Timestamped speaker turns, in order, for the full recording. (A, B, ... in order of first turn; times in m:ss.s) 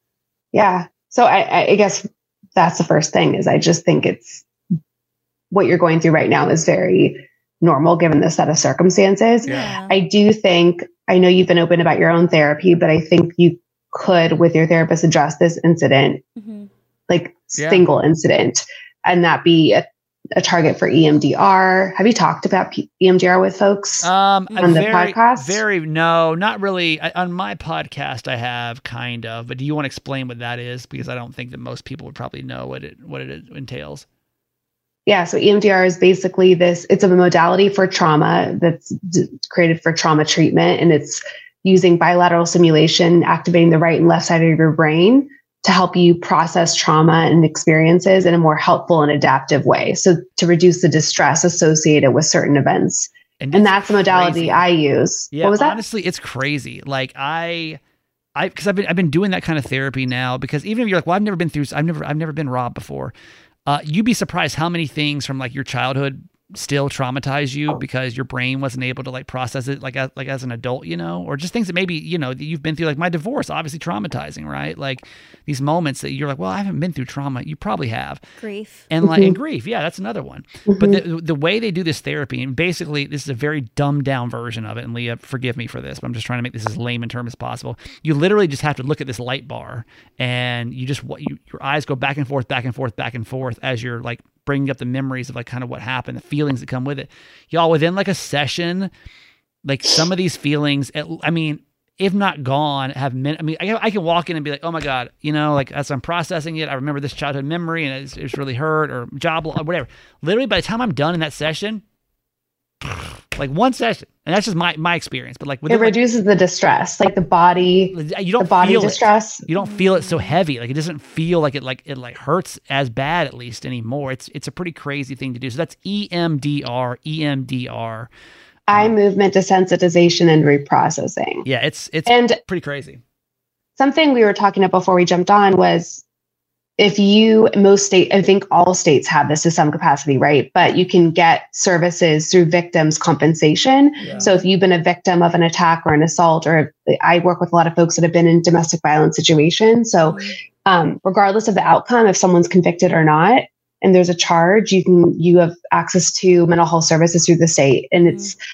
0:00.5-0:02.0 A
0:02.6-0:04.4 A
0:05.5-0:16.2 A
0:09.4-0:09.7 B
0:09.4-0:10.0 C
0:16.4-0:16.7 C
0:17.1-0:19.8 A
0:17.5-0:17.9 B
0:20.4-0:24.1 A
0:24.0-0:34.0 B
0:24.5-0:24.8 C
0:24.6-0:25.6 A
0:35.1-0:55.8 A
0:53.4-0:54.6 B
0:55.3-0:57.8 B
0:58.4-1:03.1 B
1:03.6-1:18.2 B
1:18.4-1:18.8 C
1:18.9-1:38.9 B
1:19.0-1:19.3 A
1:20.7-1:21.0 A
1:39.6-1:51.8 B
1:52.8-1:56.0 B
1:55.7-1:59.4 A
1:57.9-2:08.1 B
1:59.6-2:00.3 C
2:08.7-2:11.4 A
2:11.4-2:13.0 B
2:12.1-2:12.4 A
2:13.8-2:16.0 A
2:16.8-2:38.3 A
2:24.0-2:24.3 B
2:24.2-2:24.4 C
2:30.1-2:30.4 C
2:38.0-2:38.3 C